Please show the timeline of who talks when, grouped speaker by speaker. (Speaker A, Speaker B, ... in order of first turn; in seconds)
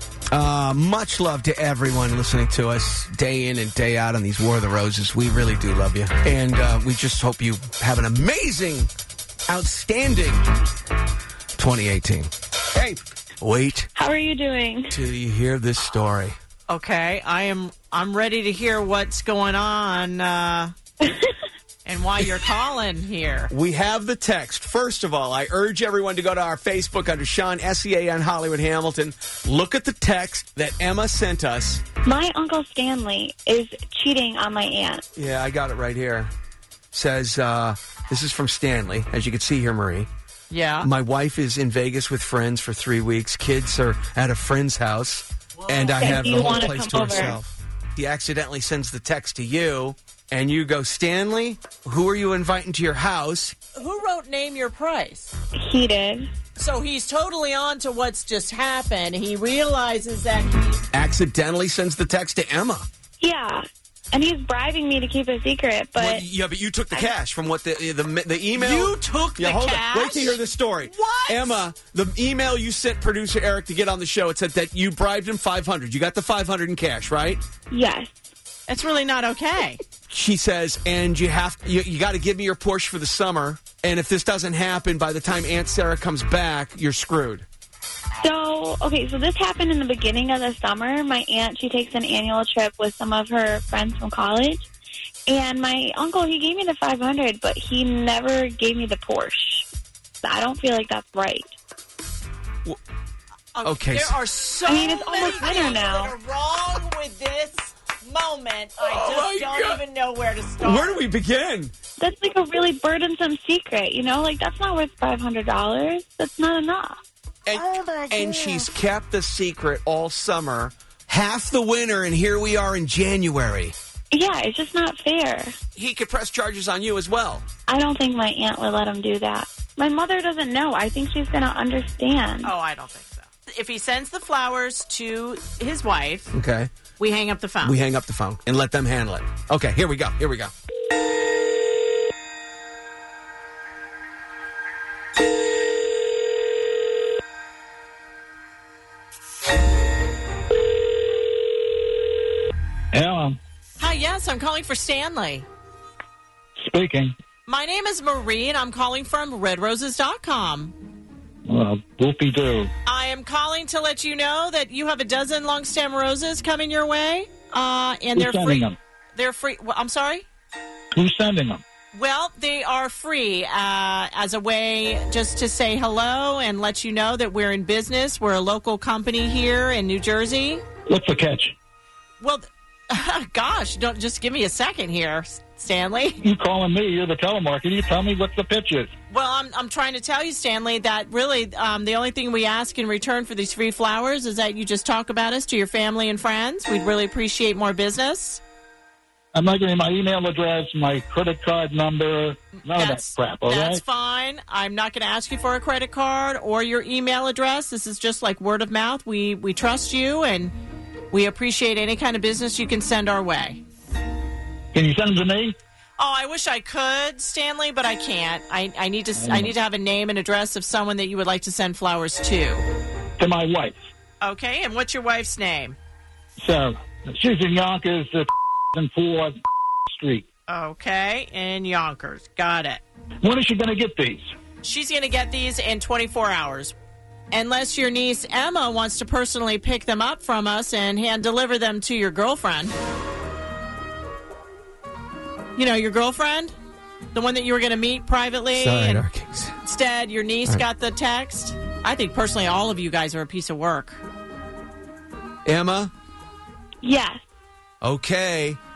Speaker A: 0.3-8.9, 9.5-10.4, 11.6-13.9, 14.9-16.4, 23.5-31.8, 35.2-36.3, 36.9-40.1, 40.8-53.6, 60.9-62.9, 66.0-77.4, 80.1-87.5, 103.6-104.2, 108.8-109.8, 110.6-111.7, 117.5-123.7, 125.8-127.4, 136.3-136.7, 137.6-140.5, 248.5-249.6, 255.5-255.9, 257.8-258.6
Speaker B: 14.0-15.0, 21.0-21.3, 32.0-35.0, 46.0-47.4, 55.6-56.3, 63.2-66.2, 77.7-78.1, 88.2-94.7, 95.3-99.7, 100.2-101.5, 104.7-106.2, 112.0-117.0, 124.1-125.5, 127.7-132.5, 256.8-257.2
Speaker C: 16.7-20.7, 21.9-23.5, 40.5-40.9, 45.6-46.7, 53.8-55.3, 56.6-60.8, 68.5-71.6, 78.7-79.8, 103.5-111.0, 132.4-136.3, 137.0-137.8, 153.8-155.5, 157.5-160.8, 162.9-168.6, 169.1-170.3, 171.9-180.6, 182.2-186.2, 189.1-198.4, 202.7-210.6, 211.1-213.6, 216.0-222.7, 224.2-225.8, 230.5-232.8, 234.6-236.8, 237.3-242.8, 245.6-246.6, 247.1-249.1, 249.6-254.0
Speaker D: 152.9-153.4, 156.6-157.1, 161.5-162.7, 168.1-168.8, 170.9-171.6, 180.9-181.6, 186.2-188.9, 199.3-203.8, 214.7-215.6, 219.2-219.5, 223.2-223.8, 226.4-229.3, 229.9-230.3, 233.2-234.2